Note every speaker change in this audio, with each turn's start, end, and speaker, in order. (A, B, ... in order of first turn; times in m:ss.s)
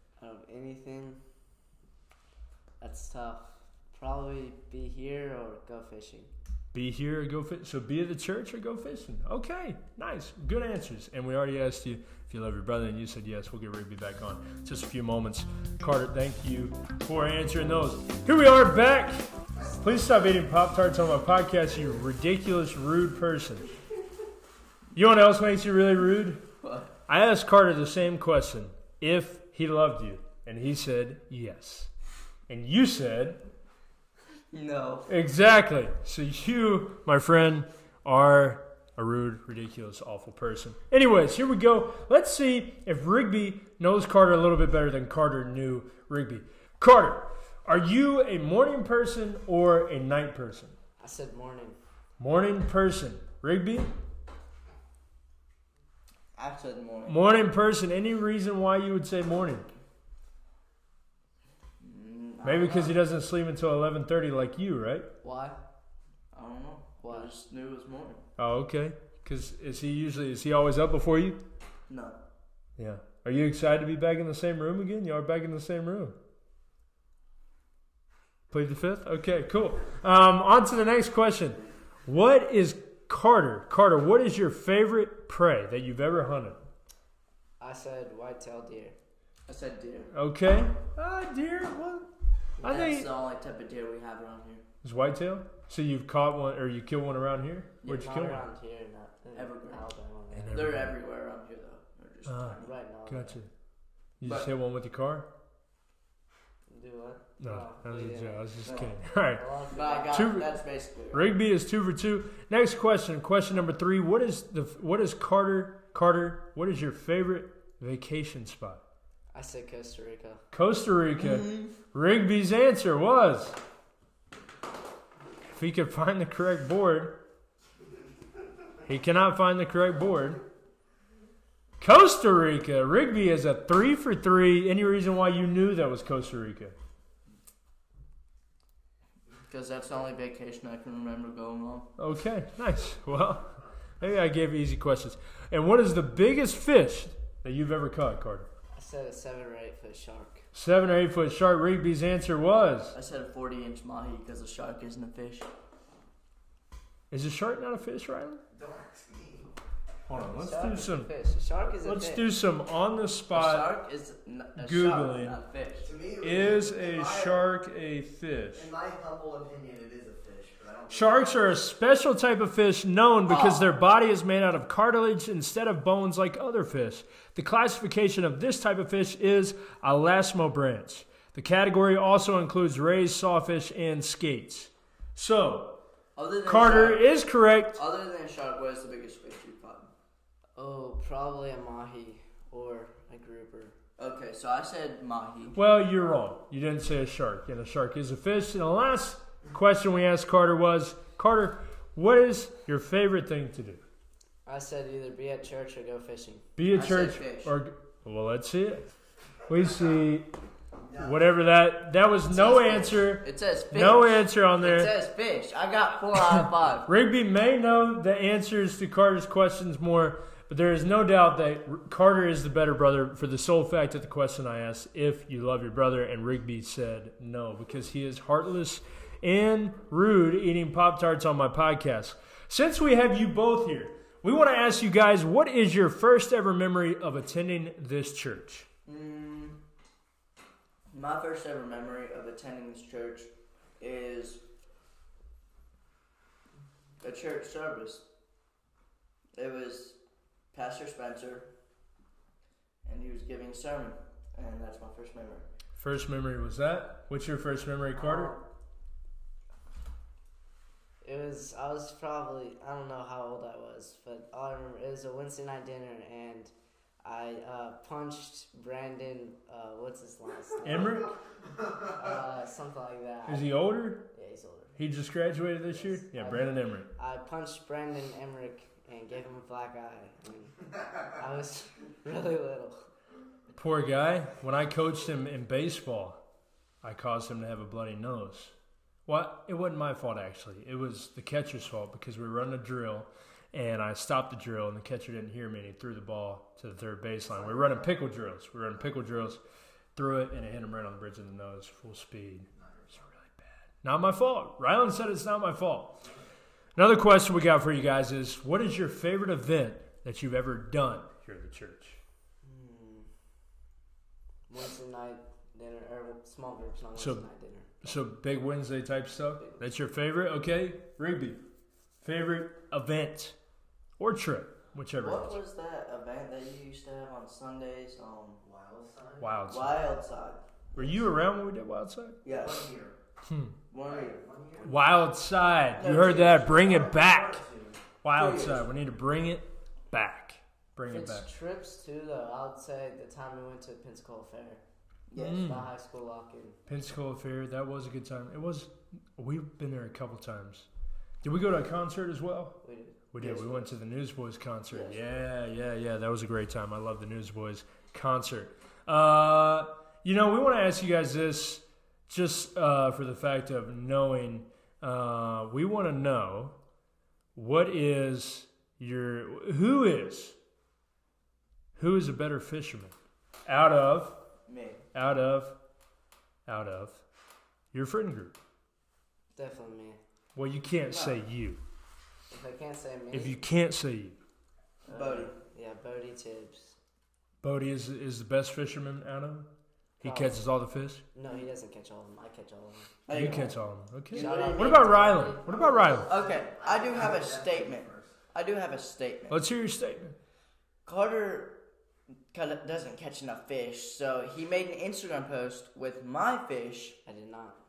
0:00.2-0:01.2 A
0:02.8-0:06.3 A
0:06.7-0:23.7 B
0:25.0-0:26.5 B
0:26.6-0:26.9 C
0:27.1-0:31.9 B
0:32.5-0:33.5 B
0:34.5-0:35.1 C
0:35.1-0:50.8 B
0:51.0-0:51.8 A
0:52.2-0:53.9 B
0:56.4-0:57.2 C
0:57.1-0:59.7 B
1:01.8-1:03.0 C
1:02.4-1:05.1 B
1:05.2-1:05.6 A
1:06.3-1:08.2 C
1:07.0-1:07.3 A
1:08.4-1:11.4 B
1:11.9-1:12.2 C
1:12.8-1:16.2 B
1:18.5-1:26.6 B
1:27.6-1:29.0 A
1:29.5-1:30.1 C
1:30.1-1:32.1 B
1:32.6-1:34.6 C
1:32.6-1:33.1 B
1:34.8-1:38.4 B
1:37.9-1:40.6 A
1:39.3-1:39.9 C
1:40.3-1:41.0 B
1:40.5-1:42.7 C
1:42.3-1:43.5 B
1:42.6-1:43.4 A
1:44.2-1:45.3 B
1:44.2-1:44.5 C
1:46.7-1:50.3 A
1:47.4-1:49.5 B
1:48.6-1:48.9 C
1:49.7-1:51.3 C
1:50.1-1:50.5 B
1:51.1-1:58.8 B
1:59.3-2:00.4 A
2:00.5-2:03.6 B
2:01.2-2:01.7 C
2:05.5-2:07.2 B
2:08.8-2:10.4 B
2:11.8-2:16.8 B
2:19.5-2:21.9 C
2:22.0-2:28.5 B
2:28.7-2:30.4 A
2:30.5-2:33.0 B
2:32.9-2:35.5 C
2:37.1-2:38.4 B
2:38.5-2:39.5 D
2:40.1-2:41.1 B
2:40.2-2:42.3 A
2:41.8-2:43.7 B
2:43.3-2:45.9 C
2:44.6-2:45.4 B
2:45.8-2:47.5 D
2:46.2-2:48.7 B
2:48.6-2:51.6 D
2:50.9-3:05.8 B
2:53.3-2:53.7 C
3:06.2-3:07.1 C
3:06.4-3:07.8 B
3:07.7-3:09.9 C
3:10.6-3:13.8 A
3:14.0-3:15.6 C
3:15.5-3:23.8 B
3:24.5-3:26.5 A
3:26.6-3:28.9 B
3:26.7-3:27.5 C
3:29.5-3:30.3 B
3:31.0-3:34.9 B
3:32.3-3:36.9 C
3:36.9-3:58.7 B
3:58.9-3:59.6 C
4:00.9-4:04.4 C
4:07.0-4:08.0 C
4:09.4-4:10.0 C
4:10.5-4:11.5 C
4:12.8-4:15.5 C
4:15.8-4:18.4 B
4:18.0-4:18.4 A
4:21.0-4:31.1 A
4:30.6-4:31.1 B
4:31.8-4:33.6 A
4:33.3-4:34.1 B
4:34.1-4:34.8 A
4:34.8-4:36.9 B
4:35.7-4:42.8 A
4:43.6-4:46.2 B
4:46.8-4:48.5 B
4:49.1-4:59.4 B
5:00.0-5:06.0 B
5:06.8-5:12.0 B
5:12.4-5:13.1 A
5:14.5-5:17.9 A
5:17.0-5:17.3 B
5:17.8-5:21.4 B
5:22.0-5:23.4 B
5:24.0-5:25.4 B
5:25.0-5:28.4 C
5:28.4-5:29.4 D
5:29.2-5:29.8 B
5:29.5-5:31.0 C
5:30.8-5:32.2 B
5:32.2-5:32.7 C
5:32.3-5:33.0 D
5:33.2-5:33.6 B
5:33.7-5:34.3 C
5:33.8-5:34.7 D
5:34.6-5:37.4 B
5:35.7-5:36.6 C
5:36.5-5:37.8 D
5:38.0-5:41.3 B
5:38.1-5:38.7 C
5:40.9-5:44.6 A
5:45.1-5:45.4 C
5:45.2-5:45.7 B
5:45.4-5:46.6 A
5:46.7-5:50.7 B
5:51.2-5:52.6 B
5:52.6-5:53.7 A
5:53.1-6:06.6 B
5:54.7-5:55.0 A
6:07.4-6:10.4 B
6:11.8-6:12.9 B
6:13.5-6:14.2 B
6:14.5-6:14.8 C
6:14.9-6:15.6 B
6:16.5-6:17.0 B
6:17.7-6:18.4 B
6:19.3-6:20.0 A
6:20.4-6:21.6 B
6:20.9-6:21.2 A
6:22.3-6:23.4 A
6:23.1-6:24.2 B
6:24.8-6:25.3 C
6:24.9-6:26.8 A
6:27.4-6:29.5 B
6:30.0-6:31.0 B
6:30.0-6:30.5 A
6:31.2-6:32.9 A
6:33.1-6:33.5 C
6:33.1-6:36.2 B
6:34.1-6:34.9 C
6:34.1-6:36.0 A
6:35.5-6:38.1 D
6:36.1-6:39.4 C
6:39.3-6:40.2 B
6:40.8-6:41.6 C
6:42.3-6:47.0 C
6:47.1-6:47.6 A